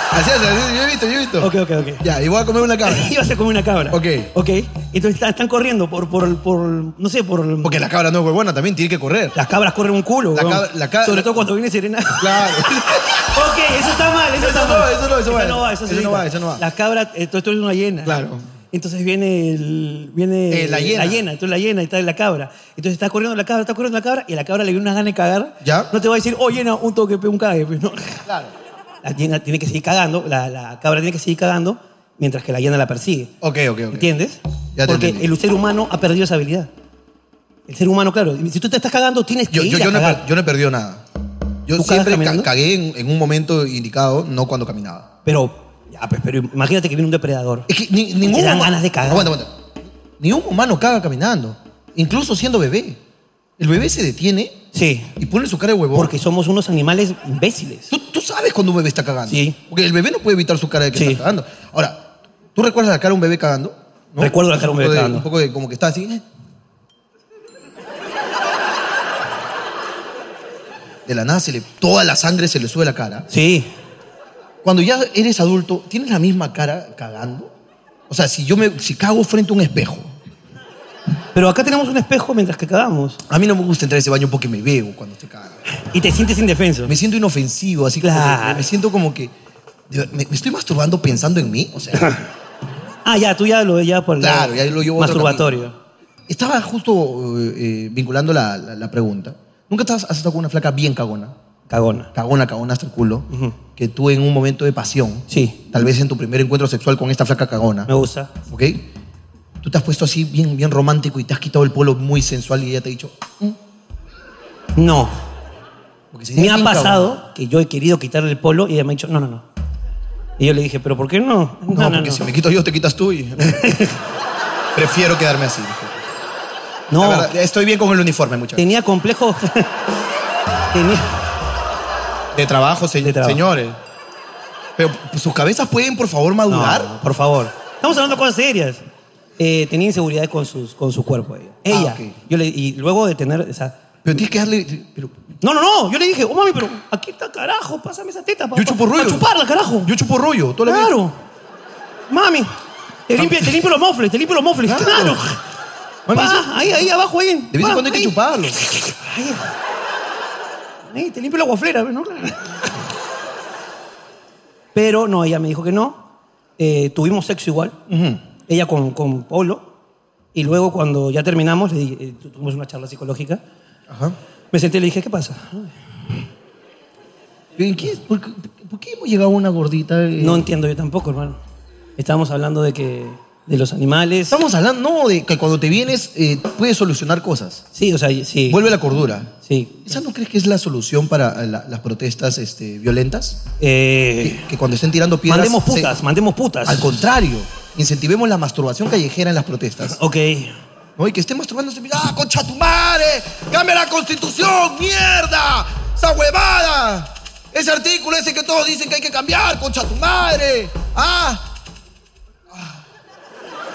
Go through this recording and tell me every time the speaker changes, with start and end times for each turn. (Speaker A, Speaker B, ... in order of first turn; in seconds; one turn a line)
Speaker A: 0.1-3.1
Speaker B: 1.4-2.0
Speaker B: 2.8-7.7
Speaker A: 3.9-4.3
Speaker A: 7.6-9.4
Speaker B: 9.3-12.7
Speaker A: 10.3-11.4
Speaker A: 12.2-13.3
Speaker B: 13.2-18.2
Speaker A: 14.3-16.6
Speaker A: 18.0-18.4
Speaker B: 18.7-28.2
Speaker A: 20.5-21.2
Speaker A: 25.6-25.9
Speaker A: 28.2-28.5
Speaker B: 29.0-33.3
Speaker A: 33.4-34.1
Speaker B: 33.9-36.7
Speaker A: 34.8-35.3
Speaker B: 37.7-40.2
Speaker A: 39.5-41.0
Speaker A: 41.6-45.1
Speaker B: 41.8-42.5
Speaker B: 45.2-47.7
Speaker A: 47.7-49.5
Speaker B: 48.2-49.3
Speaker A: 50.2-53.0
Speaker A: 53.6-54.6
Speaker B: 54.7-55.1
Speaker A: 55.2-56.1
Speaker B: 55.9-57.9
Speaker A: 57.9-66.2
Speaker B: 59.3-59.6
Speaker B: 60.9-61.2
Speaker B: 64.2-65.2
Speaker A: 71.0-73.3
Speaker B: 73.3-73.7
Speaker A: 74.6-77.5
Speaker A: 78.1-80.1
Speaker B: 81.3-83.2
Speaker A: 83.3-85.6
Speaker B: 85.8-86.9
Speaker A: 86.8-89.3
Speaker B: 88.0-88.7
Speaker A: 89.9-92.1
Speaker B: 93.0-95.7
Speaker A: 94.2-95.7
Speaker A: 96.3-101.3
Speaker B: 101.7-102.1
Speaker A: 102.1-107.9
Speaker B: 105.3-105.6
Speaker B: 107.9-108.3
Speaker A: 108.5-108.8
Speaker A: 109.6-113.6
Speaker B: 114.8-115.1
Speaker A: 116.1-117.1
Speaker B: 116.3-119.4
Speaker B: 120.4-122.2
Speaker A: 121.7-123.8
Speaker B: 123.4-123.9
Speaker A: 124.7-126.0
Speaker B: 126.9-127.3
Speaker A: 127.0-128.7
Speaker B: 128.6-129.7
Speaker B: 130.7-131.1
Speaker A: 132.3-133.8
Speaker B: 133.0-133.4
Speaker A: 134.8-136.9
Speaker B: 136.5-138.8
Speaker B: 139.4-143.8
Speaker A: 141.7-142.1
Speaker A: 144.0-145.2
Speaker B: 145.4-149.9
Speaker A: 148.5-149.3
Speaker A: 149.8-150.9
Speaker B: 150.7-151.2
Speaker B: 152.1-152.5
Speaker B: 153.1-155.4
Speaker A: 153.2-153.5
Speaker A: 154.7-155.2
Speaker A: 156.1-156.8
Speaker B: 156.1-159.5
Speaker A: 157.5-158.6
Speaker B: 160.9-162.7
Speaker B: 164.7-166.0
Speaker B: 166.6-167.8
Speaker A: 167.9-168.2
Speaker B: 168.5-169.7
Speaker B: 170.3-173.4
Speaker A: 173.9-174.2
Speaker B: 174.5-175.7
Speaker A: 177.6-180.4
Speaker B: 180.2-181.4
Speaker B: 182.0-184.4
Speaker A: 184.3-187.6
Speaker B: 187.7-188.6
Speaker A: 188.5-189.3
Speaker B: 189.4-189.9
Speaker A: 189.8-193.4
Speaker B: 193.6-194.5
Speaker A: 194.2-195.9
Speaker B: 195.3-197.0
Speaker A: 196.6-200.0
Speaker B: 199.8-200.6
Speaker A: 201.0-211.4